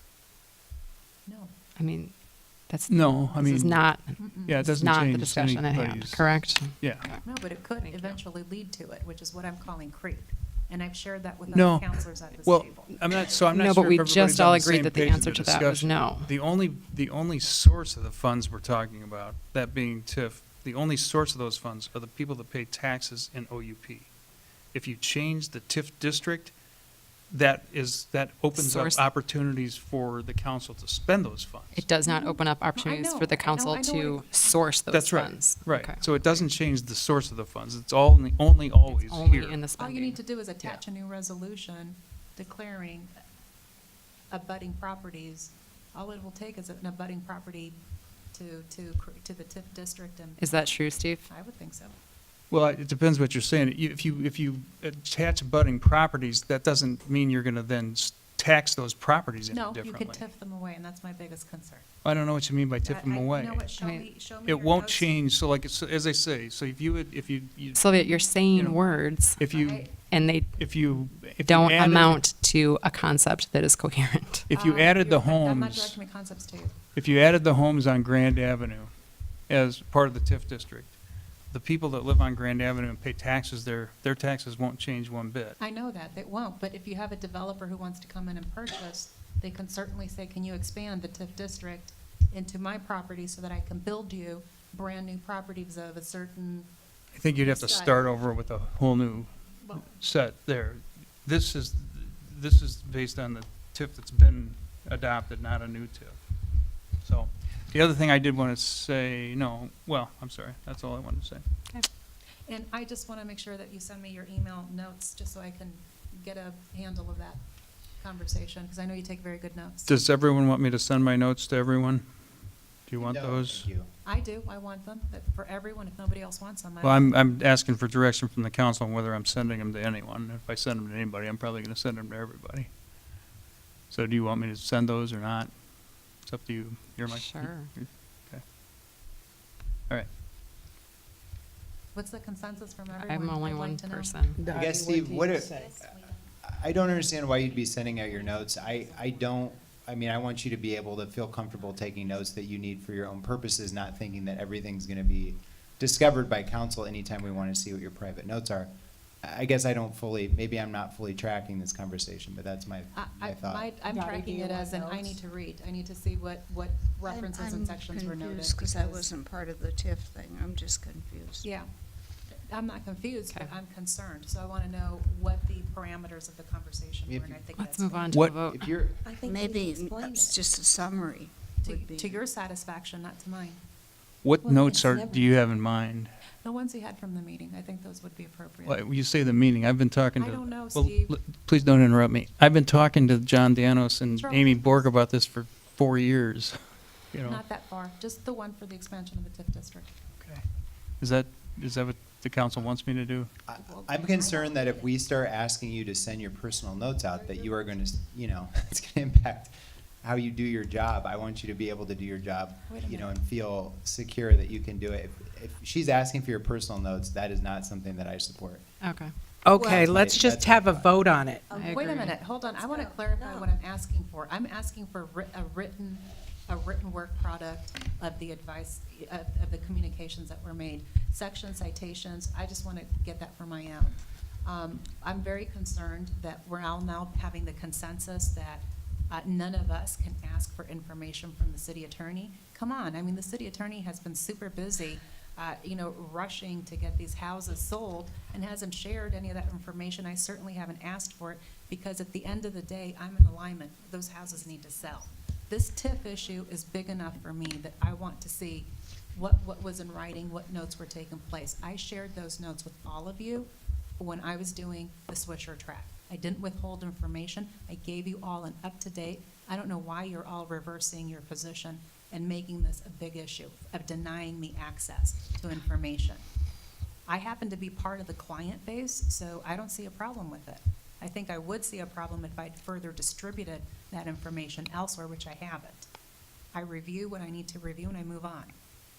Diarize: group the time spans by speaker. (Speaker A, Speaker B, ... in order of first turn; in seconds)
Speaker A: 1.3-1.6, 4.2-4.7, 7.2-13.0, 32.0-34.3, 39.8-43.1, 44.3-47.8, 48.3-50.7, 51.3-52.0, 59.5-61.9, 62.8-65.1, 69.5-69.9, 74.5-76.8, 85.6-96.7, 97.4-98.1, 112.5-117.4, 118.0-120.0, 124.0-127.3, 141.9-144.4, 162.9-169.1, 172.5-178.2, 179.2-180.3, 181.6-183.6, 184.7-185.2, 186.4-188.8, 190.2-191.2, 194.1-194.9, 197.2-199.9, 212.7-213.2, 221.5-276.2, 277.1-285.9, 286.5-288.5
Speaker B: 1.8-8.2, 13.5-16.3, 28.6-29.1, 31.7-36.0, 38.8-40.2, 50.4-51.2, 63.8-64.1, 67.8-69.5, 70.0-70.6, 71.4-74.5, 137.1-137.7, 142.9-144.5, 177.6-178.8, 218.8-219.1, 221.5-222.2
Speaker C: 2.9-3.8, 4.4-7.1, 11.5-24.1, 24.7-26.5, 27.3-31.9, 34.9-39.6, 52.5-60.2, 62.0-63.7, 64.5-68.8, 69.4-69.9, 70.6-72.2, 74.5-76.0, 77.0-78.9, 79.5-81.0, 81.5-85.6, 97.1-106.2, 107.0-111.4, 119.9-122.0, 122.9-123.7, 126.8-132.7, 133.9-135.5, 136.2-138.4, 178.1-178.4, 184.2-186.1, 188.7-196.6, 197.1-197.4, 201.0-203.3
Speaker D: 123.0-123.9, 144.4-145.8, 146.4-163.7, 177.1-177.4, 178.5-179.0, 203.5-218.6, 219.5-221.0
Speaker E: 144.4-145.7, 164.0-165.1, 179.0-180.2
Speaker F: 164.2-164.6, 167.0-171.5, 179.2-182.2, 219.5-219.8, 221.5-223.5
Speaker G: 219.4-221.5